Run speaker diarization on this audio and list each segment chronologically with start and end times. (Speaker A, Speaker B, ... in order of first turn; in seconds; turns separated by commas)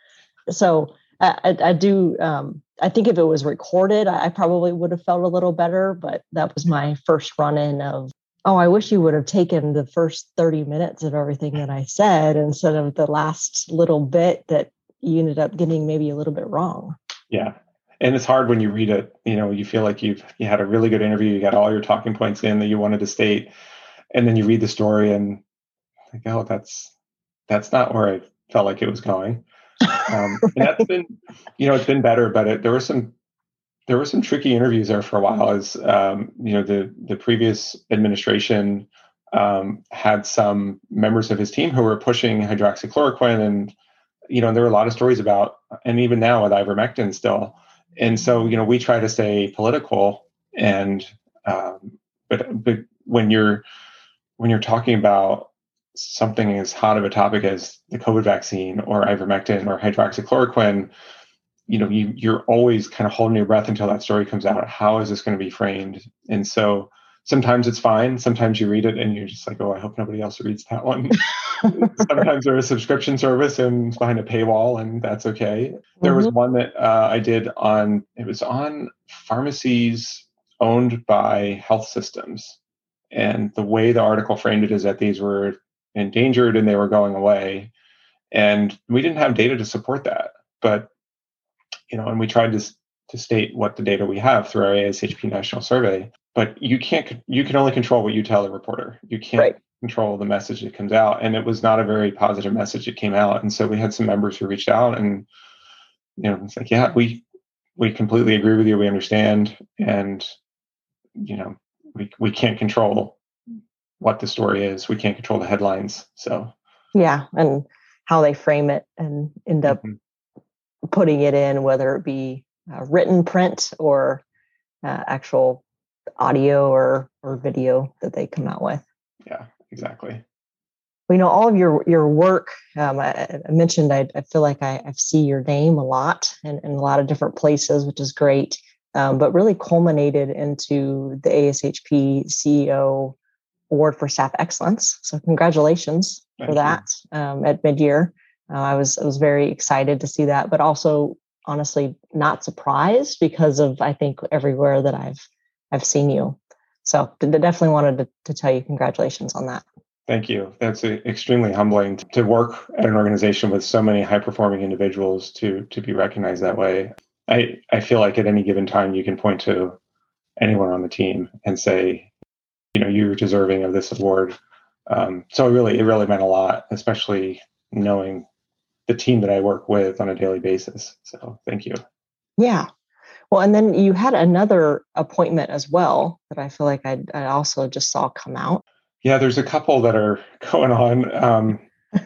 Speaker A: 0.5-16.9, Speaker B: 17.3-23.5, Speaker B: 24.1-25.4, Speaker B: 26.1-26.9, Speaker B: 27.5-29.4, Speaker B: 29.9-33.1, Speaker B: 33.9-43.7, Speaker B: 44.3-53.6, Speaker B: 54.4-60.9, Speaker B: 61.7-82.6, Speaker A: 76.0-76.3, Speaker B: 83.1-87.7, Speaker B: 88.3-90.9, Speaker B: 91.9-105.3, Speaker B: 106.2-107.2, Speaker B: 107.8-110.3, Speaker B: 111.2-113.2, Speaker B: 114.0-116.5, Speaker A: 116.9-119.8, Speaker B: 119.7-120.0, Speaker A: 120.9-124.2, Speaker A: 124.8-125.6, Speaker A: 126.2-128.8, Speaker B: 129.2-130.2, Speaker A: 131.1-143.2, Speaker A: 143.7-159.6, Speaker B: 146.4-146.8, Speaker B: 160.1-169.8, Speaker B: 170.4-172.1, Speaker B: 172.7-174.3, Speaker B: 174.9-178.3, Speaker B: 178.9-181.8, Speaker A: 182.4-182.7, Speaker A: 183.3-188.6, Speaker B: 189.0-191.6